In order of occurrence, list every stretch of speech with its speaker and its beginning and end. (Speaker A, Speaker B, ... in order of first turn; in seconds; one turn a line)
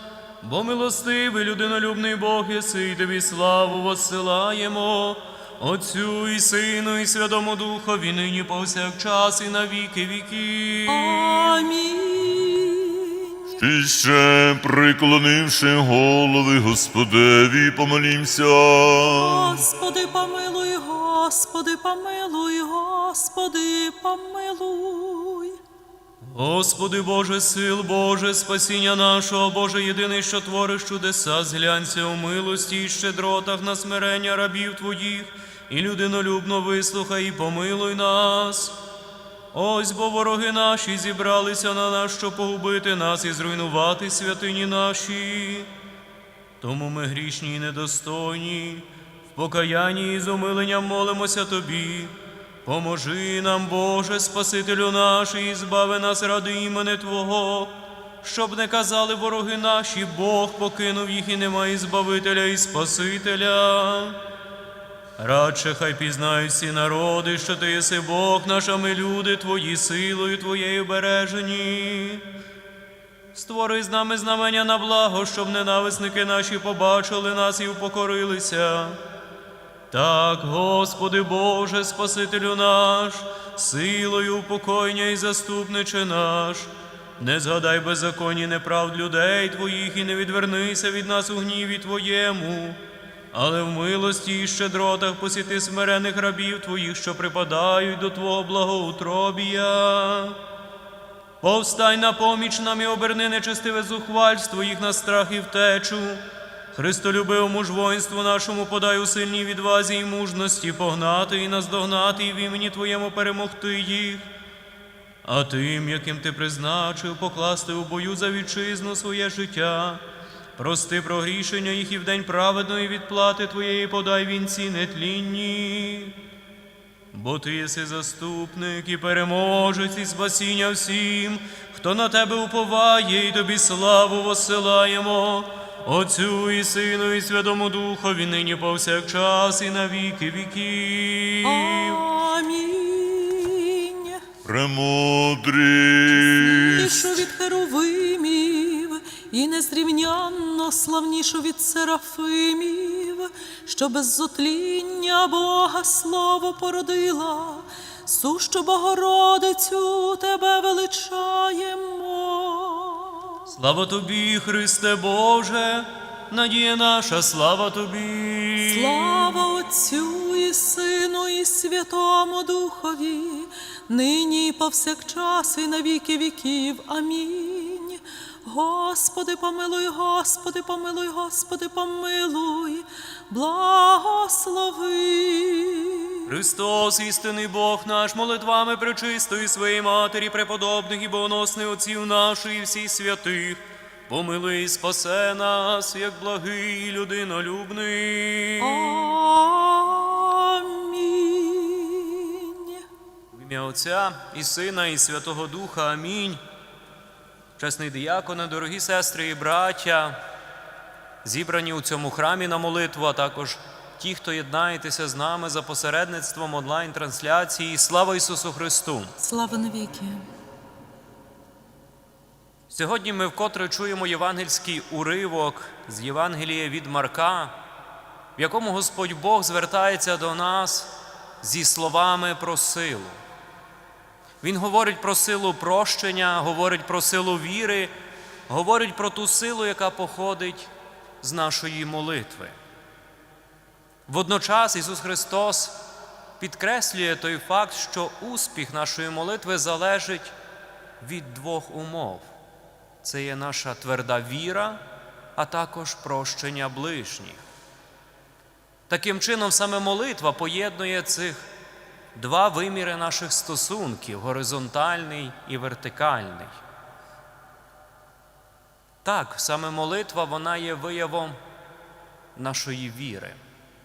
Speaker A: 0.4-11.7
Speaker B: 10.9-13.6
Speaker C: 13.6-19.6
Speaker B: 19.1-25.6
Speaker A: 26.2-38.8
Speaker A: 39.5-45.7
Speaker A: 46.6-64.2
Speaker A: 65.2-72.3
Speaker A: 73.3-79.0
Speaker A: 79.9-92.8
Speaker A: 93.3-100.4
Speaker A: 101.4-114.3
Speaker A: 115.2-120.0
Speaker A: 120.6-126.2
Speaker A: 127.1-142.0
Speaker B: 141.4-144.2
Speaker C: 144.4-147.3
Speaker B: 146.1-163.5
Speaker A: 163.5-169.3
Speaker B: 168.6-186.3
Speaker A: 186.3-199.1
Speaker B: 198.6-202.8
Speaker A: 203.3-206.4
Speaker A: 207.6-210.2
Speaker A: 211.2-219.2
Speaker B: 219.2-220.2
Speaker A: 222.7-227.6
Speaker A: 228.4-233.2
Speaker A: 234.4-237.9
Speaker A: 238.5-242.6
Speaker A: 244.1-245.8
Speaker A: 246.4-250.3
Speaker A: 251.0-252.3
Speaker A: 253.0-254.8
Speaker A: 255.4-257.4
Speaker A: 258.9-261.5
Speaker A: 262.1-266.6
Speaker A: 269.1-271.4
Speaker A: 272.4-273.4